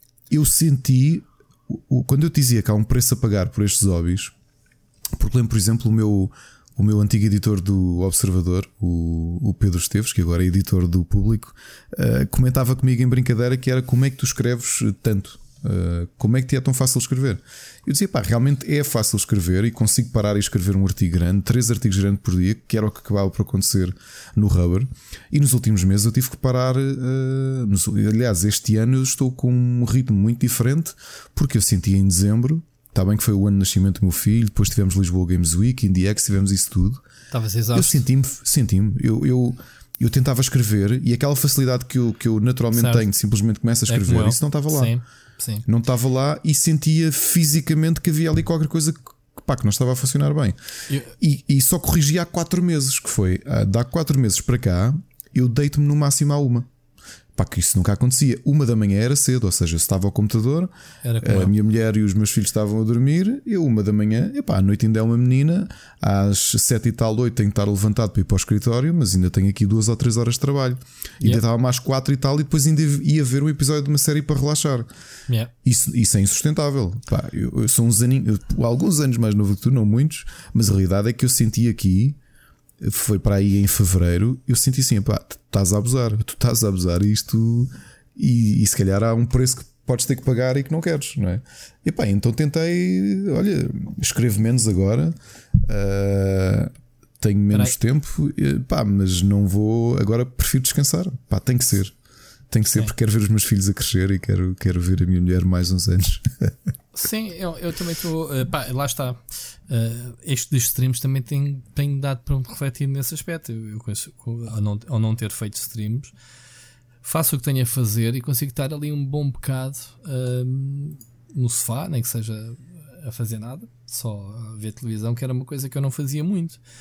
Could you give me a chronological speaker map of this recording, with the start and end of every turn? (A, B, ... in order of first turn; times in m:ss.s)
0:00.3-0:04.3 A
0:05.2-0:37.0 A
0:37.3-0:38.0 B
0:37.7-0:44.9 A
0:42.7-0:43.0 B
0:43.9-0:45.6 B
0:45.6-0:50.6 A
0:51.2-0:56.7 A
0:57.3-1:14.9 A
1:01.0-1:01.5 B
1:15.6-1:22.2 A
1:22.8-1:41.9 A
1:42.5-1:46.5 A
1:46.9-1:56.1 B
1:57.0-2:06.6 B